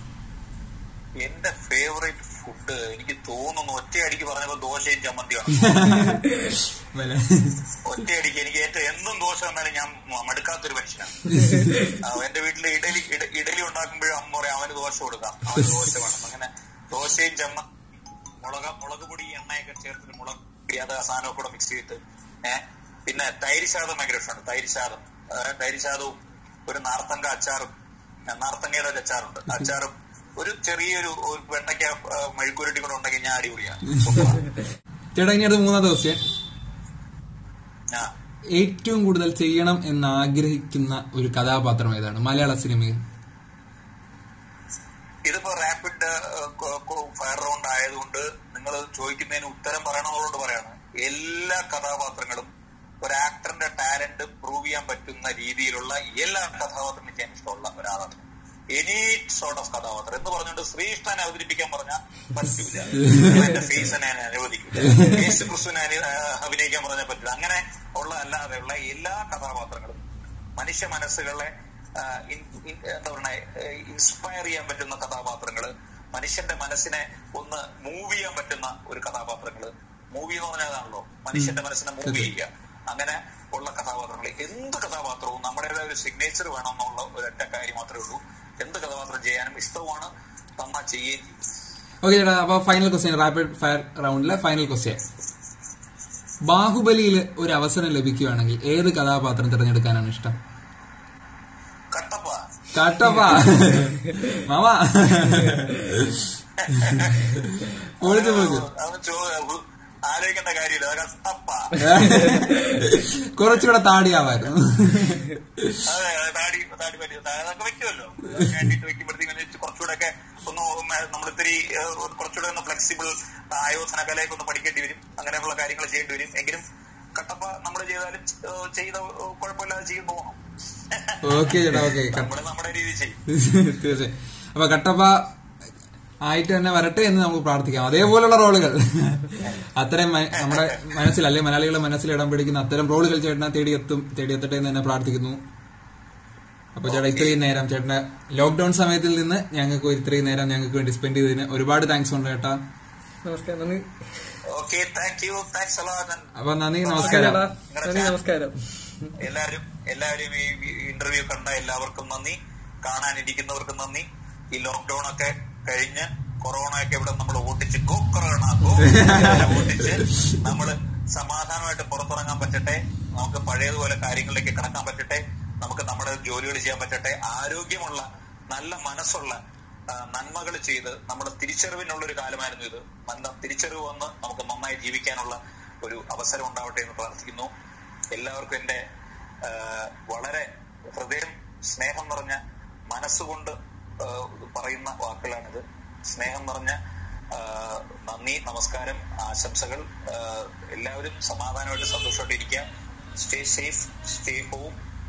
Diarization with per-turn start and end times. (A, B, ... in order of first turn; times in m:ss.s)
0:01.2-0:06.1 A
0:05.6-0:07.6 B
0:07.8-0:11.3 A
0:11.3-0:11.8 B
0:11.9-0:17.7 A
0:18.4-0:27.7 A
0:28.3-0:34.4 A
0:34.0-0:34.3 B
0:35.2-0:36.2 B
0:38.6-0:43.0 B
0:45.2-0:52.5 A
0:53.0-0:58.2 A
0:58.7-1:10.0 A
1:03.0-1:03.4 B
1:04.8-1:05.2 B
1:10.6-1:31.4 A
1:32.0-1:35.0 B
1:36.5-1:40.4 B
1:41.9-1:42.4 A
1:42.7-1:46.3 B
1:46.6-1:47.3 A
1:46.8-1:48.7 B
1:48.0-1:52.4 A
1:51.8-1:55.8 B
1:55.8-2:06.6 A
2:07.2-2:10.4 A
2:10.9-2:13.2 A
2:11.2-2:12.3 B
2:13.3-2:15.2 B
2:16.2-2:25.4 B
2:20.3-2:20.8 A
2:26.8-2:32.6 B
2:26.9-2:27.4 A
2:33.2-2:33.8 C
2:34.5-2:36.3 A
2:36.4-2:37.4 B
2:36.8-2:38.2 A
2:37.0-2:39.2 C
2:39.2-2:59.4 A
2:48.8-2:49.6 B
2:59.9-3:07.5 A
3:08.1-3:08.8 A
3:09.4-3:16.8 A
3:17.3-3:22.6 A
3:23.2-3:24.8 A